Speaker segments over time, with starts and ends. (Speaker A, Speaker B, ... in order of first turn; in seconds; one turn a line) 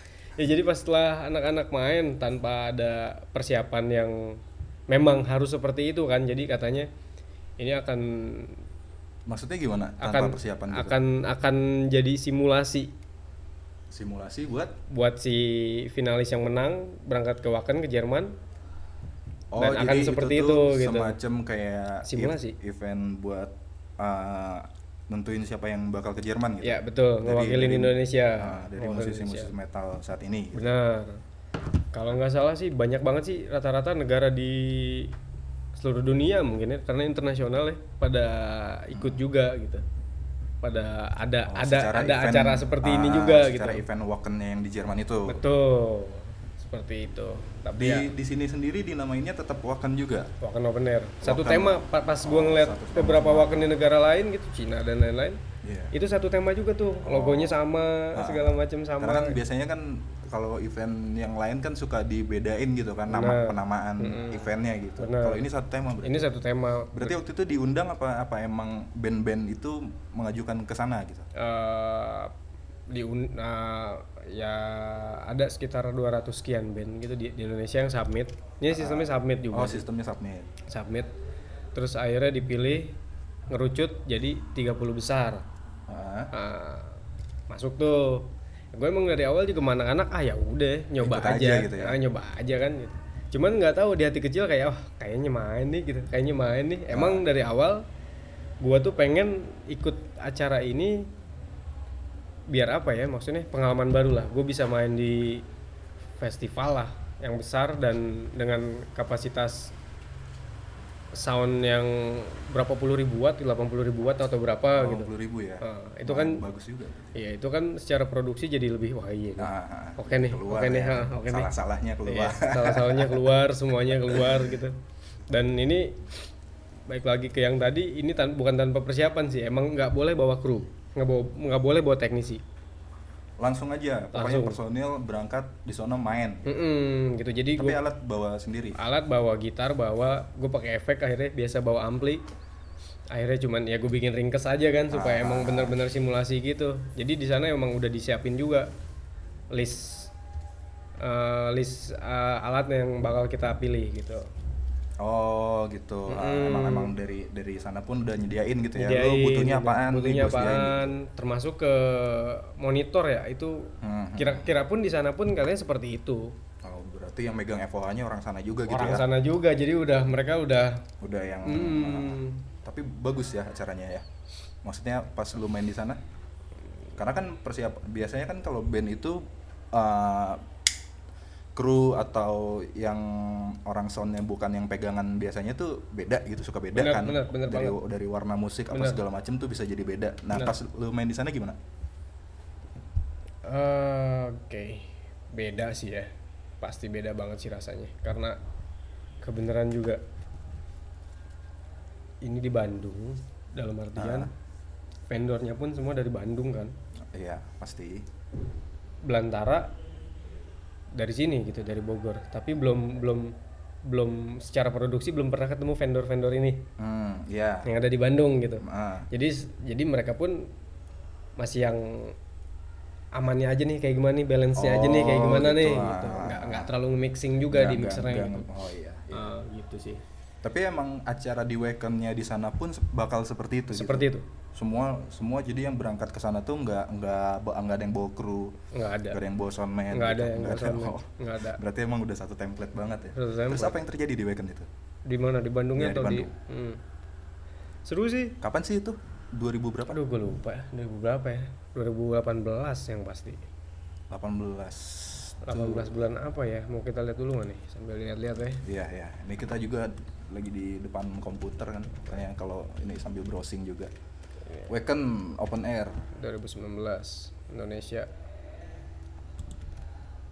Speaker A: 0.3-4.4
Speaker A: 4.9-6.9
Speaker A: 7.6-8.6
Speaker B: 9.3-11.0
Speaker A: 10.0-12.9
Speaker B: 13.9-14.8
Speaker A: 14.9-18.3
Speaker B: 19.5-30.6
Speaker A: 19.6-21.2
Speaker A: 22.0-22.6
Speaker A: 26.6-29.5
Speaker A: 30.5-31.2
Speaker A: 31.9-35.1
Speaker A: 35.8-39.8
Speaker B: 38.9-39.2
Speaker A: 40.6-43.8
Speaker B: 41.5-45.4
Speaker A: 45.2-48.1
Speaker B: 47.8-50.3
Speaker A: 50.4-55.4
Speaker B: 51.2-53.7
Speaker B: 55.6-55.9
Speaker A: 55.9-59.4
Speaker B: 57.0-57.6
Speaker B: 58.1-66.3
Speaker A: 63.1-65.4
Speaker A: 66.0-67.1
Speaker B: 66.9-71.3
Speaker A: 71.3-72.3
Speaker A: 72.9-79.8
Speaker B: 78.7-80.5
Speaker A: 80.7-81.1
Speaker A: 81.7-83.0
Speaker A: 83.5-85.4
Speaker B: 85.9-86.3
Speaker A: 86.3-87.0
Speaker A: 87.5-97.8
Speaker B: 91.0-92.0
Speaker B: 96.9-97.2
Speaker A: 98.6-101.1
Speaker A: 102.5-105.5
Speaker A: 106.2-109.7
Speaker A: 111.1-116.4
Speaker B: 114.7-117.1
Speaker A: 117.1-121.5
Speaker B: 119.4-124.4
Speaker A: 122.0-124.8
Speaker A: 125.3-126.1
Speaker A: 126.9-132.4
Speaker B: 133.4-136.5
Speaker A: 134.1-134.6
Speaker A: 136.4-137.8
Speaker B: 137.6-138.8
Speaker A: 138.8-142.2
Speaker A: 143.1-148.7
Speaker B: 144.9-145.8
Speaker A: 149.5-150.1
Speaker A: 151.0-154.3
Speaker B: 155.0-160.9
Speaker A: 156.1-156.9
Speaker A: 158.8-166.3
Speaker B: 163.8-164.6
Speaker B: 166.6-169.1
Speaker A: 168.7-170.9
Speaker B: 171.0-174.1
Speaker A: 171.4-172.4
Speaker B: 174.6-176.0
Speaker B: 176.9-180.4
Speaker B: 181.5-191.6
Speaker A: 186.7-187.8
Speaker A: 188.7-189.0
Speaker A: 193.4-198.4
Speaker A: 199.2-200.0
Speaker A: 202.2-204.3
Speaker B: 203.9-204.3
Speaker A: 205.1-206.7
Speaker B: 207.1-208.1
Speaker A: 209.0-209.7
Speaker A: 210.9-216.6
Speaker B: 216.8-217.7
Speaker A: 217.6-220.5
Speaker B: 218.6-219.1
Speaker A: 221.4-222.1
Speaker A: 223.1-228.5
Speaker B: 224.6-226.7
Speaker B: 227.5-229.2
Speaker A: 229.1-230.0
Speaker B: 230.4-238.5
Speaker A: 233.7-234.2
Speaker A: 238.7-239.2
Speaker B: 239.1-244.7
Speaker A: 239.9-241.6
Speaker A: 243.1-243.8
Speaker A: 245.1-246.8
Speaker B: 245.8-246.3
Speaker A: 247.8-248.4
Speaker B: 248.4-250.0
Speaker A: 249.9-253.4
Speaker B: 254.1-256.0
Speaker A: 255.4-258.6
Speaker B: 258.6-263.9
Speaker B: 264.7-266.0
Speaker A: 266.1-268.1